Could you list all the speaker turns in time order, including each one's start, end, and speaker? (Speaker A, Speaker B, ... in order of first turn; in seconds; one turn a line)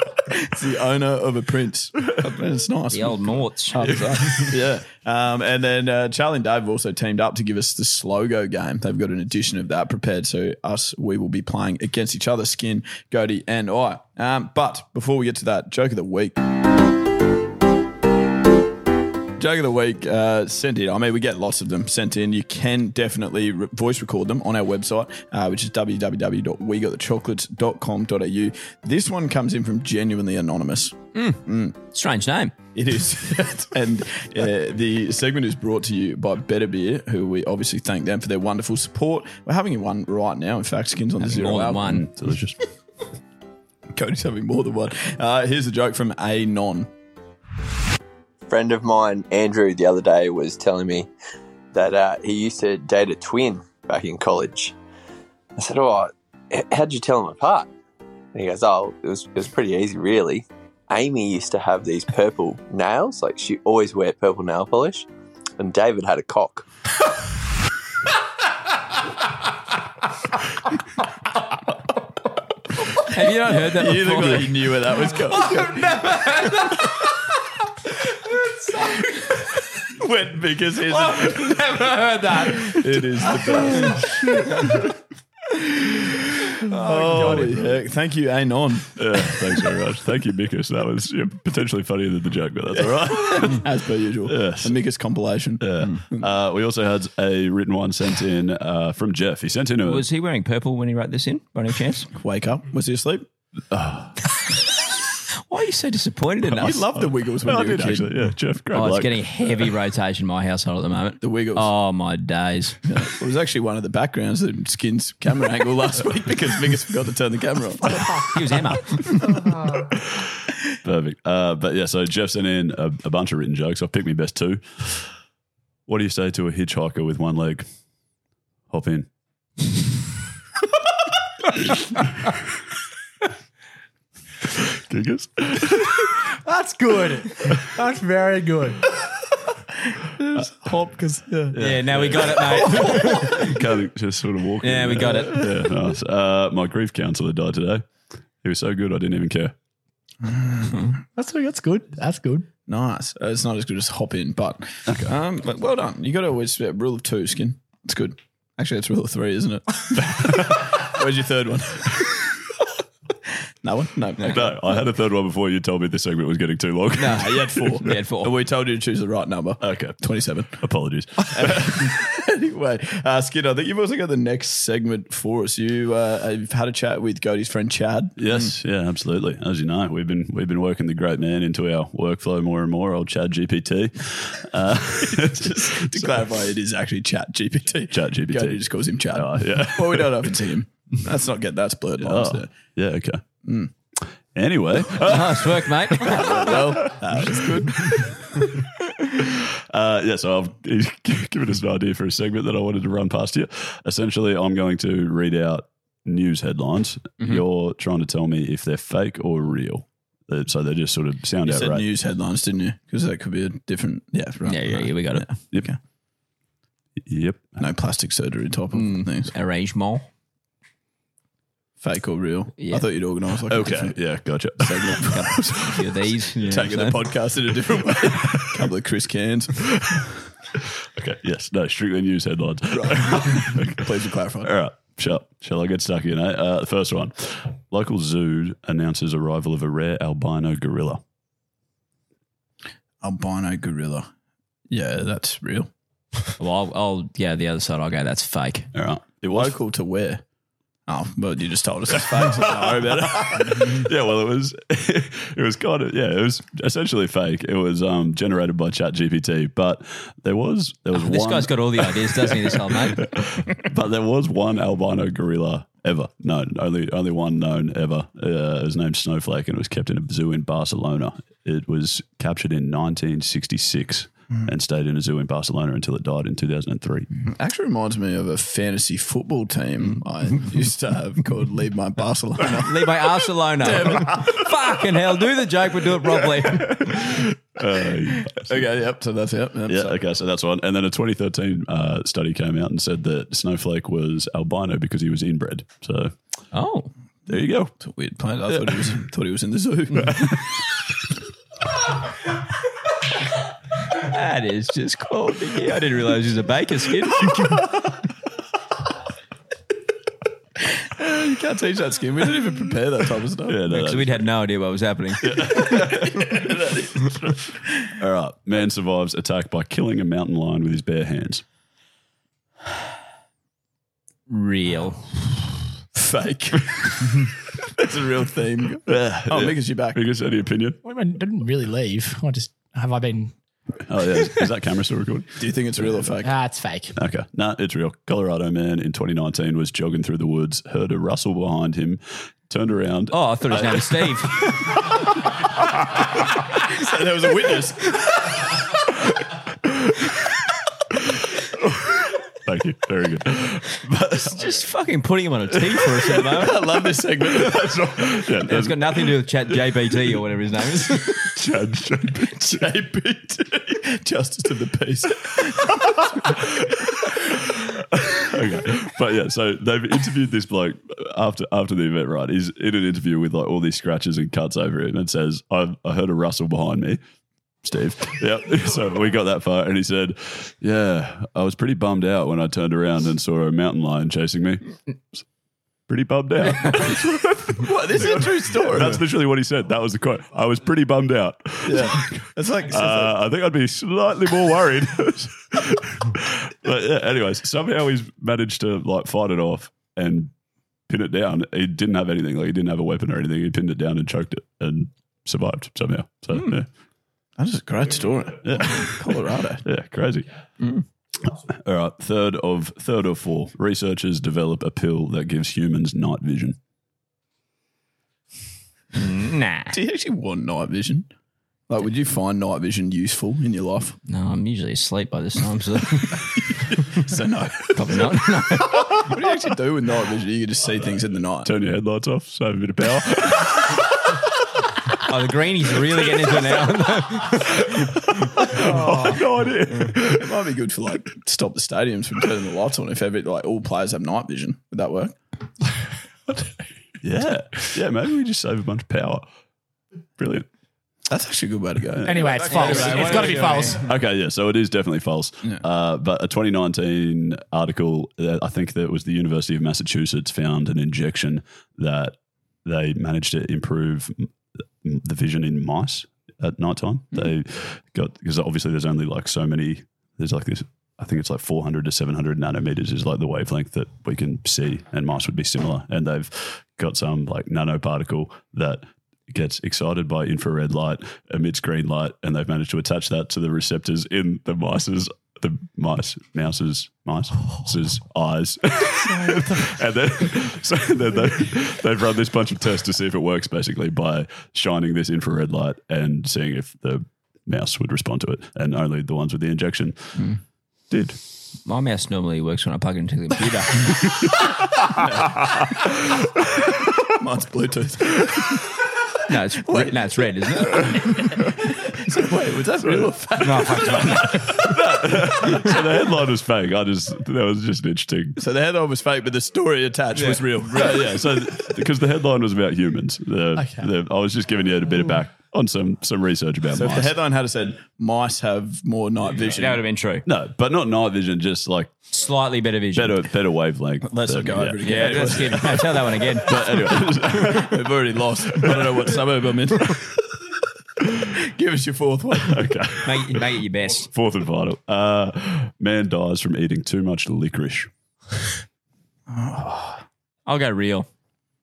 Speaker A: 0.3-16.4
Speaker B: 2.9-4.5
Speaker A: 19.4-31.8
Speaker B: 31.1-32.6
Speaker A: 32.8-41.9
Speaker B: 41.2-42.0
Speaker C: 41.8-42.6
Speaker A: 43.9-46.9
Speaker D: 48.5-51.1
Speaker D: 51.7-54.7
Speaker D: 55.6-57.7
Speaker D: 58.3-65.1
Speaker D: 65.6-66.7
Speaker B: 73.0-74.5
Speaker A: 73.5-76.2
Speaker E: 75.5-76.8
Speaker E: 78.7-78.9
Speaker A: 79.9-81.7
Speaker E: 81.1-83.5
Speaker A: 82.4-84.5
Speaker E: 84.1-84.7
Speaker A: 85.5-89.3
Speaker E: 87.0-87.2
Speaker C: 87.1-87.8
Speaker C: 89.0-93.7
Speaker A: 92.7-96.3
Speaker C: 94.2-94.8
Speaker C: 95.6-100.1
Speaker B: 99.8-102.1
Speaker A: 102.1-103.3
Speaker C: 103.7-104.2
Speaker B: 105.5-106.8
Speaker A: 106.6-108.2
Speaker C: 107.0-109.2
Speaker B: 108.7-112.8
Speaker A: 111.2-111.7
Speaker A: 112.8-118.3
Speaker B: 118.3-119.1
Speaker A: 119.1-119.4
Speaker C: 120.8-125.1
Speaker C: 125.9-127.7
Speaker C: 128.7-129.1
Speaker C: 134.6-136.1
Speaker E: 136.4-138.8
Speaker A: 140.2-141.6
Speaker C: 141.5-147.8
Speaker B: 141.6-143.5
Speaker B: 144.6-145.4
Speaker C: 148.4-149.5
Speaker A: 150.2-150.9
Speaker E: 151.1-152.5
Speaker A: 152.7-162.4
Speaker C: 154.9-155.1
Speaker C: 160.1-160.7
Speaker A: 163.6-164.6
Speaker C: 164.3-167.7
Speaker A: 167.0-170.6
Speaker B: 167.8-168.3
Speaker C: 169.6-172.0
Speaker A: 171.3-178.5
Speaker C: 178.2-186.3
Speaker A: 185.1-192.5
Speaker C: 187.9-190.4
Speaker C: 192.0-193.2
Speaker A: 193.4-193.7
Speaker C: 194.3-198.4
Speaker B: 195.0-196.5
Speaker A: 196.1-198.5
Speaker C: 199.2-211.8
Speaker A: 211.4-215.8
Speaker B: 214.4-215.3
Speaker C: 217.1-217.6
Speaker A: 217.6-219.3
Speaker B: 218.7-220.1
Speaker A: 221.8-224.0
Speaker B: 222.6-222.8
Speaker C: 223.5-225.3
Speaker A: 224.6-225.8
Speaker B: 225.1-227.1
Speaker A: 226.4-230.1
Speaker C: 231.0-241.0
Speaker A: 232.7-234.6
Speaker A: 243.0-244.1
Speaker A: 244.7-245.7
Speaker B: 246.4-248.7
Speaker C: 248.7-249.6
Speaker A: 249.3-250.2
Speaker A: 250.9-253.8
Speaker C: 252.1-277.1
Speaker B: 260.9-263.0
Speaker A: 277.2-282.9
Speaker B: 282.6-286.9
Speaker A: 283.6-284.3
Speaker C: 286.9-288.7
Speaker A: 288.4-290.0
Speaker C: 289.7-296.1
Speaker B: 296.5-296.9
Speaker C: 297.3-297.8
Speaker A: 297.8-300.4
Speaker B: 303.9-307.6
Speaker A: 310.8-313.7
Speaker C: 313.4-314.2
Speaker B: 313.7-315.4
Speaker C: 315.2-321.4
Speaker A: 316.0-316.7
Speaker B: 324.3-325.1
Speaker A: 325.9-330.0
Speaker C: 328.9-330.8
Speaker E: 330.8-333.3
Speaker C: 333.9-335.4
Speaker A: 335.4-336.4
Speaker E: 336.2-337.0
Speaker C: 337.0-344.1
Speaker B: 343.1-344.5
Speaker A: 346.5-348.3
Speaker C: 351.9-354.4
Speaker B: 354.3-356.6
Speaker C: 355.7-356.1
Speaker A: 356.3-357.8
Speaker C: 357.2-359.8
Speaker B: 358.5-361.2
Speaker C: 361.2-362.6
Speaker A: 362.4-366.1
Speaker C: 367.9-377.0
Speaker C: 377.6-385.2
Speaker C: 385.9-400.3
Speaker A: 387.5-389.1
Speaker A: 391.6-393.2
Speaker C: 400.9-406.7
Speaker A: 407.4-409.6
Speaker C: 408.4-410.3
Speaker C: 411.2-416.6
Speaker B: 419.0-419.7
Speaker A: 419.7-421.1
Speaker A: 421.7-424.0
Speaker B: 424.1-426.2
Speaker A: 426.9-431.5
Speaker B: 427.7-429.1
Speaker C: 431.4-433.8
Speaker B: 435.1-437.7
Speaker C: 438.1-440.3
Speaker A: 438.6-439.1
Speaker A: 439.8-445.1
Speaker C: 447.0-449.3
Speaker C: 450.2-450.5
Speaker A: 451.1-453.7
Speaker C: 452.0-464.3
Speaker E: 452.0-453.9
Speaker B: 452.5-453.8
Speaker C: 464.8-500.2
Speaker C: 500.9-501.2
Speaker B: 501.7-504.1
Speaker A: 507.0-508.6
Speaker B: 509.3-511.0
Speaker A: 509.6-514.2
Speaker C: 512.8-518.4
Speaker B: 513.5-514.0
Speaker A: 518.4-521.5
Speaker B: 520.2-520.4
Speaker C: 520.8-527.1
Speaker E: 523.6-523.9
Speaker A: 526.7-529.8
Speaker B: 529.4-530.2
Speaker C: 530.2-531.9
Speaker B: 532.1-533.2
Speaker C: 533.0-535.7
Speaker A: 534.0-540.0
Speaker B: 534.8-536.6
Speaker C: 536.4-539.2
Speaker A: 541.4-542.7
Speaker C: 542.4-543.5
Speaker B: 543.0-544.1
Speaker C: 544.0-547.9
Speaker A: 549.3-550.0
Speaker B: 550.5-551.1